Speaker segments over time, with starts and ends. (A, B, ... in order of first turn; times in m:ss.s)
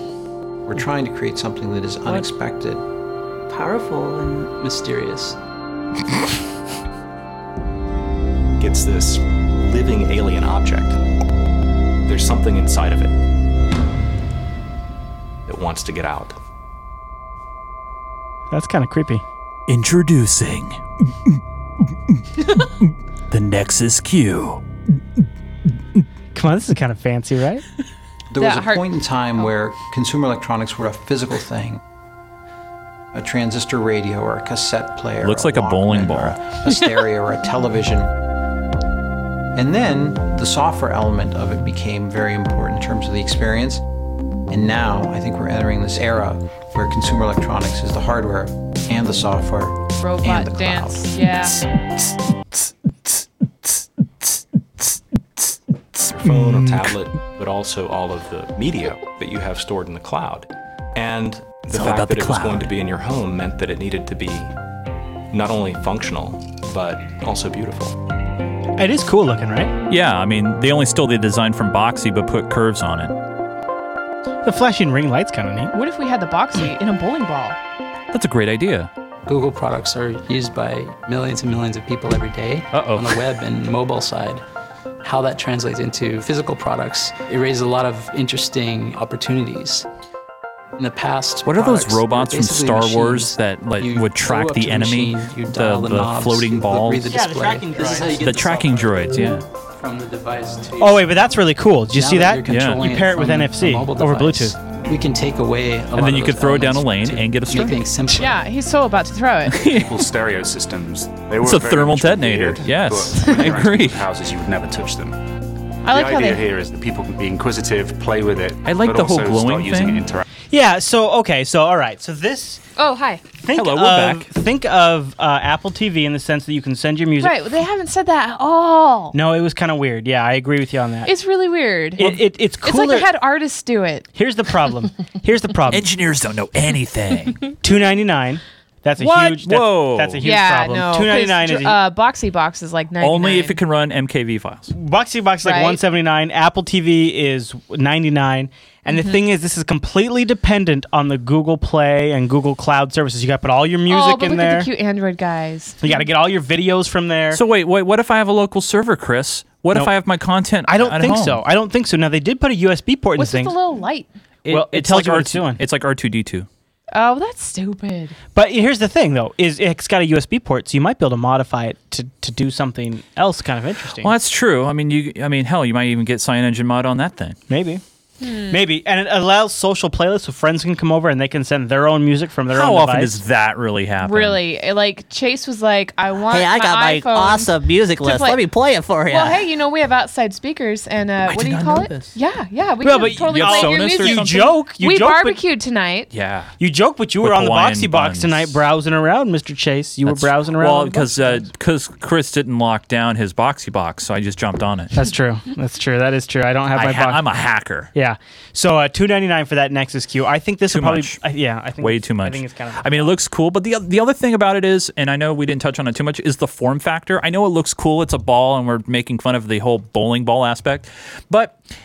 0:00.6-0:02.8 A
0:03.5-0:05.4 B
0:08.6-0:11.0 C
0:12.1-0:13.1 C
0:15.5-0:16.4 C
0:18.5-0:19.2 D
0:19.7-0:21.4 E
0:22.1-0:24.6 E
0:26.3-0:27.6 D
0:28.3-0:31.8 A
0:28.4-0:28.9 F
0:33.1-0:38.1 A
0:35.2-0:36.4 E
0:39.6-0:43.8 A
0:44.5-0:51.1 A
0:50.0-0:51.6 F
0:51.5-0:56.9 E
0:56.1-1:04.5 C
1:01.7-1:02.7 E
1:05.3-1:08.0 C
1:08.8-1:09.7 D
1:09.9-1:13.1 E
1:14.4-1:15.7 D
1:15.7-1:17.6 F
1:18.1-1:18.9 E
1:19.2-1:24.4 B
1:22.7-1:23.2 E
1:25.0-1:29.9 B
1:30.8-1:41.1 B
1:31.4-1:37.2 E
1:37.1-1:38.3 D
1:38.0-1:39.4 E
1:40.8-1:44.6 D
1:41.9-1:48.4 B
1:42.5-1:42.9 E
1:46.0-1:47.9 E
1:48.1-1:49.6 F
1:49.5-1:50.1 E
1:49.6-1:55.2 G
1:51.4-1:54.0 E
1:55.8-1:56.4 F
1:55.9-2:00.2 G
1:58.6-2:00.1 E
2:00.5-2:02.6 D
2:02.8-2:03.2 F
2:03.4-2:07.4 D
2:03.5-2:04.3 E
2:07.2-2:09.2 F
2:09.1-2:11.1 D
2:11.0-2:14.1 F
2:12.0-2:13.1 D
2:14.1-2:15.9 D
2:15.7-2:17.5 E
2:17.6-2:21.8 D
2:19.0-2:20.2 E
2:20.2-2:23.6 F
2:23.0-2:24.7 E
2:24.7-2:34.7 D
2:25.4-2:25.8 F
2:33.9-2:36.0 F
2:35.8-2:37.4 D
2:37.3-2:41.4 E
2:40.6-2:43.6 D
2:43.2-2:44.1 F
2:44.4-2:45.6 D
2:44.4-2:46.5 E
2:46.9-2:48.1 F
2:48.4-2:54.2 D
2:54.0-2:57.4 E
2:57.5-2:57.8 D
2:58.2-2:58.6 F
2:58.5-3:03.2 D
3:02.5-3:04.4 E
3:04.0-3:08.5 F
3:09.0-3:16.1 F
3:11.2-3:12.1 E
3:12.8-3:15.4 D
3:13.0-3:14.5 E
3:16.1-3:16.5 E
3:16.6-3:21.5 D
3:17.2-3:18.6 E
3:20.0-3:25.0 E
3:24.9-3:27.3 D
3:26.7-3:27.9 E
3:28.0-3:33.2 D
3:30.7-3:31.2 E
3:31.8-3:41.6 E